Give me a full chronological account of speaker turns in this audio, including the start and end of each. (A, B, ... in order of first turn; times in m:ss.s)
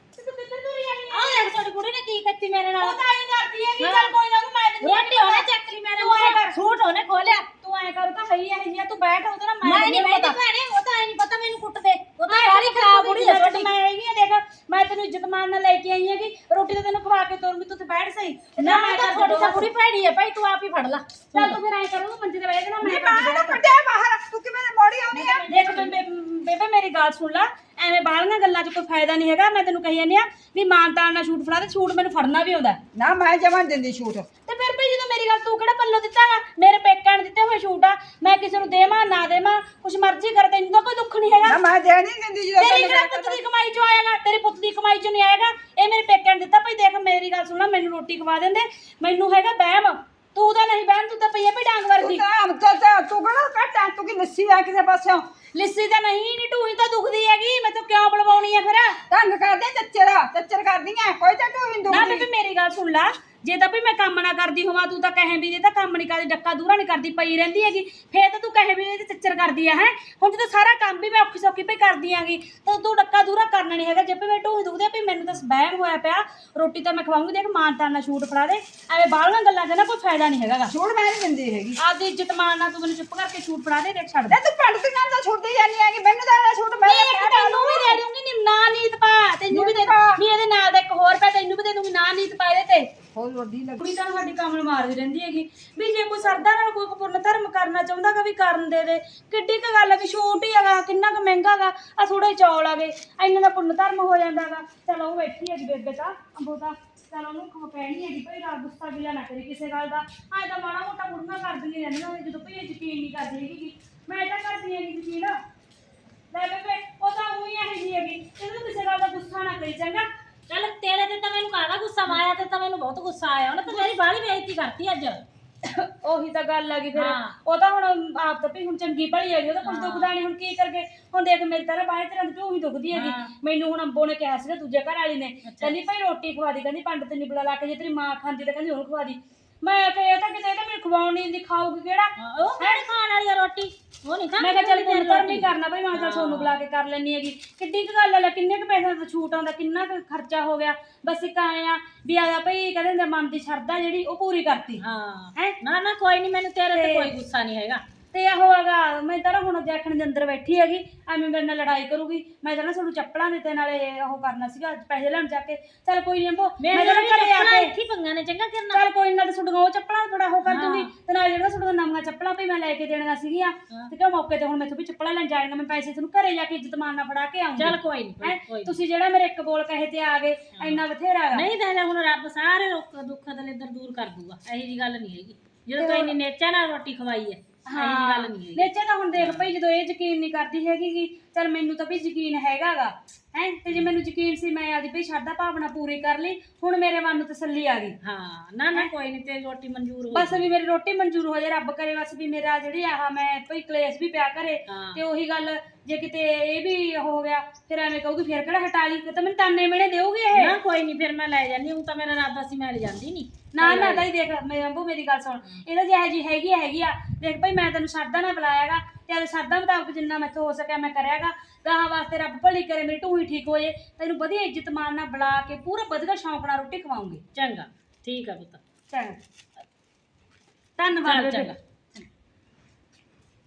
0:00.2-0:01.5 A
0:01.1-0:03.0 B
0:02.8-0:05.4 A
0:03.8-0:04.1 B
0:04.8-0:07.5 B
0:06.0-0:06.5 A
0:07.6-0:10.4 A
0:09.6-0:13.7 B
0:12.3-0:19.7 A
0:18.6-0:21.6 B
0:21.3-0:23.6 A
0:22.8-0:25.4 C
0:25.1-0:25.9 B
0:25.5-0:32.8 A
0:32.9-0:34.3 C
0:34.5-0:41.6 A
0:41.4-0:43.4 C
0:42.6-0:52.2 A
0:52.0-0:55.2 C
0:55.5-0:59.0 A
0:59.1-1:02.3 C
1:01.9-1:20.7 A
1:20.7-1:21.8 C
1:21.8-1:24.4 A
1:24.3-1:28.0 C
1:26.8-1:32.9 A
1:29.5-1:30.2 C
1:33.1-1:33.8 C
1:33.8-1:55.3 A
1:56.3-2:00.0 A
2:00.5-2:05.2 B
2:05.6-2:22.8 A
2:06.9-2:07.4 B
2:09.6-2:10.1 B
2:12.9-2:13.3 B
2:15.4-2:15.8 B
2:22.2-2:26.5 B
2:24.4-2:34.8 A
2:34.8-2:37.8 B
2:36.7-2:37.1 A
2:38.1-2:47.7 A
2:46.6-2:48.8 B
2:48.7-3:01.4 A
2:50.4-2:50.9 B
2:57.6-2:58.8 B
3:00.6-3:09.5 B
3:05.8-3:06.1 A
3:07.6-3:18.0 A
3:18.0-3:20.5 B
3:20.1-3:30.5 A
3:24.7-3:25.0 B
3:30.3-3:34.1 B
3:33.5-3:47.2 A
3:47.3-3:48.6 B
3:48.9-3:49.2 A
3:50.8-3:52.0 A
3:50.9-3:51.6 B